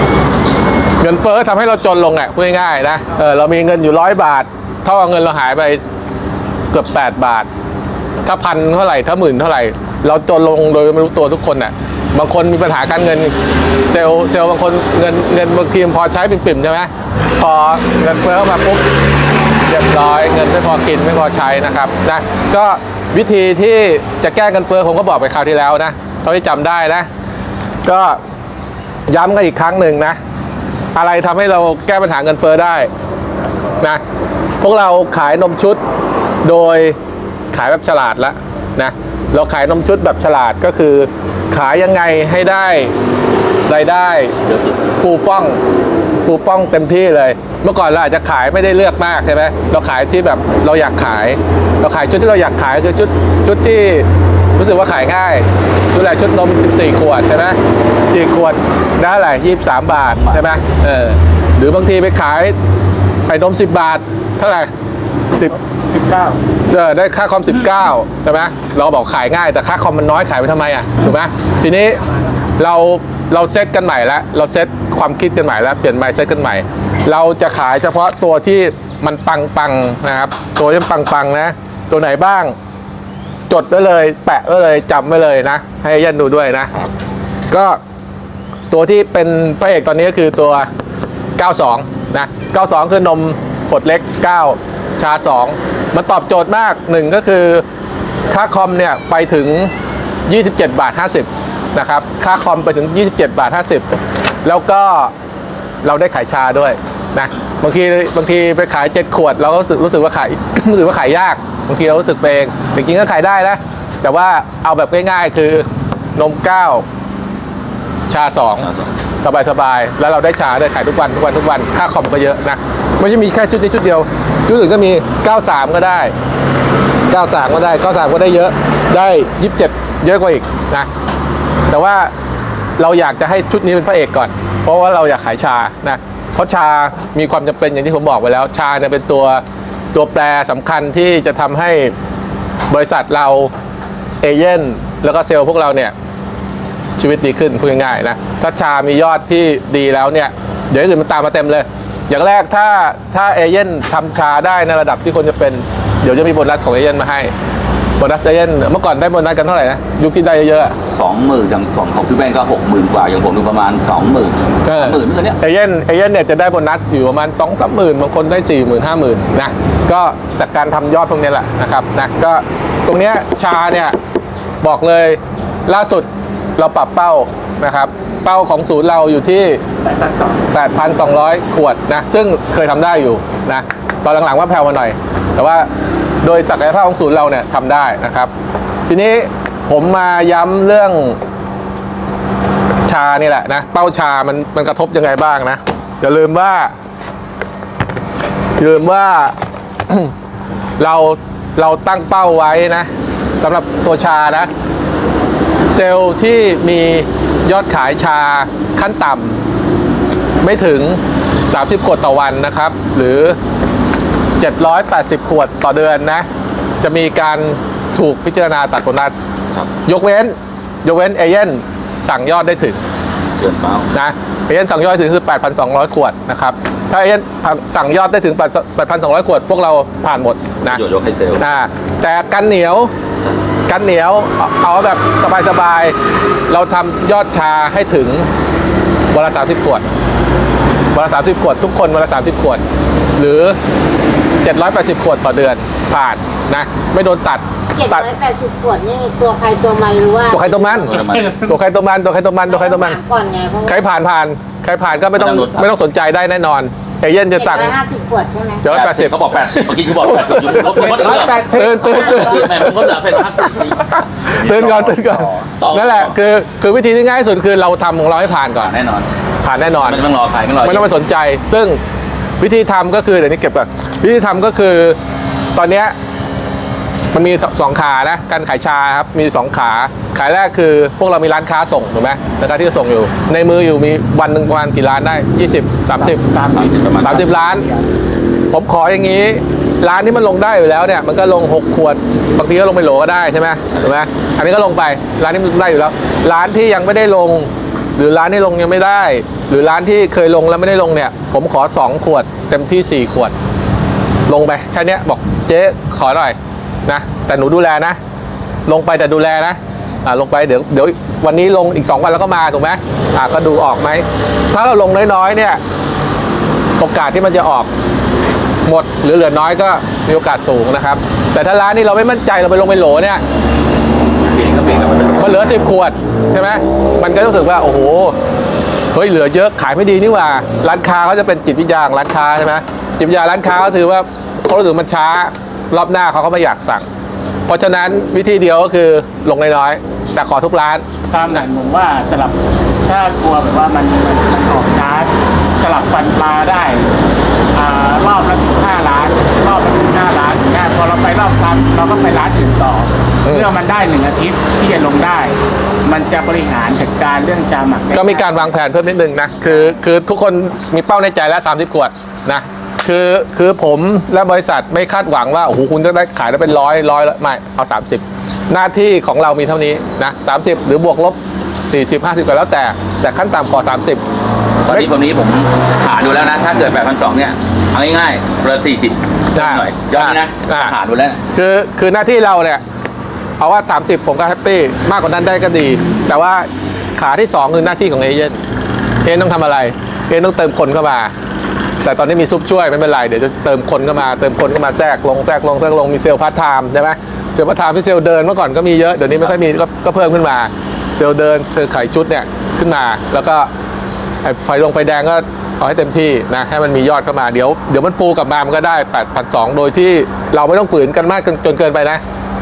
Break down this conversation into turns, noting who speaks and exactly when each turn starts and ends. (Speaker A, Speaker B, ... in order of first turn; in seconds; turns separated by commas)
Speaker A: 1.0-5.8, Speaker A: 6.7-7.5, Speaker A: 8.2-13.3, Speaker A: 13.9-18.9, Speaker A: 19.7-27.1, Speaker A: 27.8-28.2, Speaker A: 29.1-30.2, Speaker A: 30.9-32.9, Speaker A: 34.6-35.8, Speaker A: 36.4-37.0, Speaker A: 37.5-42.9, Speaker A: 43.7-44.4, Speaker B: 44.5-44.8, Speaker A: 45.0-45.6, Speaker A: 46.2-57.6, Speaker A: 58.1-62.5, Speaker A: 63.3-64.7, Speaker A: 65.3-65.5, Speaker C: 65.8-66.4, Speaker A: 66.7-72.0, Speaker A: 72.6-82.5, Speaker A: 83.5-86.8, Speaker A: 87.5-87.8, Speaker A: 88.7-90.7, Speaker A: 91.4-97.6, Speaker A: 98.3-99.7, Speaker A: 100.3-103.8, Speaker A: 104.4-105.1, Speaker A: 105.8-116.8, Speaker A: 118.1-118.7, Speaker B: 118.6-118.9, Speaker A: 119.2-126.1, Speaker A: 127.1-130.9, Speaker A: 131.7-132.1, Speaker A: 132.8-141.9, Speaker A: 142.7-143.5, Speaker A: 144.2-145.9, Speaker A: 147.0-157.3, Speaker A: 158.0-160.7, Speaker B: 160.9-165.4, Speaker A: 164.6-173.9, Speaker A: 174.6-179.6, Speaker C: 179.8-180.4, Speaker A: 180.5-185.7, Speaker A: 186.2-188.3, Speaker A: 188.9-191.2, Speaker A: 192.8-196.7, Speaker A: 198.6-199.3, Speaker A: 200.8-202.9, Speaker A: 203.4-204.5, Speaker A: 205.7-209.4, Speaker A: 210.4-213.4, Speaker A: 214.4-216.2, Speaker A: 216.8-219.1, Speaker A: 219.8-222.8, Speaker B: 223.4-223.9, Speaker A: 223.9-230.8, Speaker B: 230.7-231.4, Speaker A: 231.4-232.9, Speaker A: 233.7-235.9, Speaker A: 236.5-238.3, Speaker A: 239.1-239.8, Speaker A: 240.9-242.6, Speaker A: 243.2-243.6, Speaker A: 244.4-248.1, Speaker D: 247.7-250.9, Speaker A: 250.3-253.0, Speaker B: 250.8-251.4, Speaker D: 252.5-253.8, Speaker A: 253.6-257.8, Speaker B: 255.1-255.7, Speaker D: 257.4-258.6, Speaker A: 258.6-268.7, Speaker B: 258.6-266.1, Speaker C: 260.6-262.4, Speaker B: 268.6-269.1, Speaker A: 269.4-270.0, Speaker B: 269.8-270.9, Speaker A: 270.6-271.8, Speaker A: 272.4-275.0, Speaker A: 275.5-275.9, Speaker A: 277.1-286.2, Speaker C: 285.9-287.8, Speaker B: 286.5-287.2, Speaker A: 287.0-287.6, Speaker A: 288.5-303.3, Speaker A: 304.3-308.0, Speaker A: 308.6-315.6, Speaker A: 316.8-317.7, Speaker A: 318.6-323.2, Speaker B: 324.3-325.6, Speaker A: 325.2-328.1, Speaker A: 328.9-336.9, Speaker A: 337.5-341.4, Speaker C: 341.1-346.9, Speaker C: 347.5-358.4, Speaker A: 357.9-371.2, Speaker A: 371.7-374.0, Speaker B: 374.6-381.2, Speaker A: 379.3-380.7, Speaker A: 381.3-382.6, Speaker A: 383.4-388.4, Speaker A: 389.0-391.1, Speaker A: 391.8-403.5, Speaker A: 404.2-412.0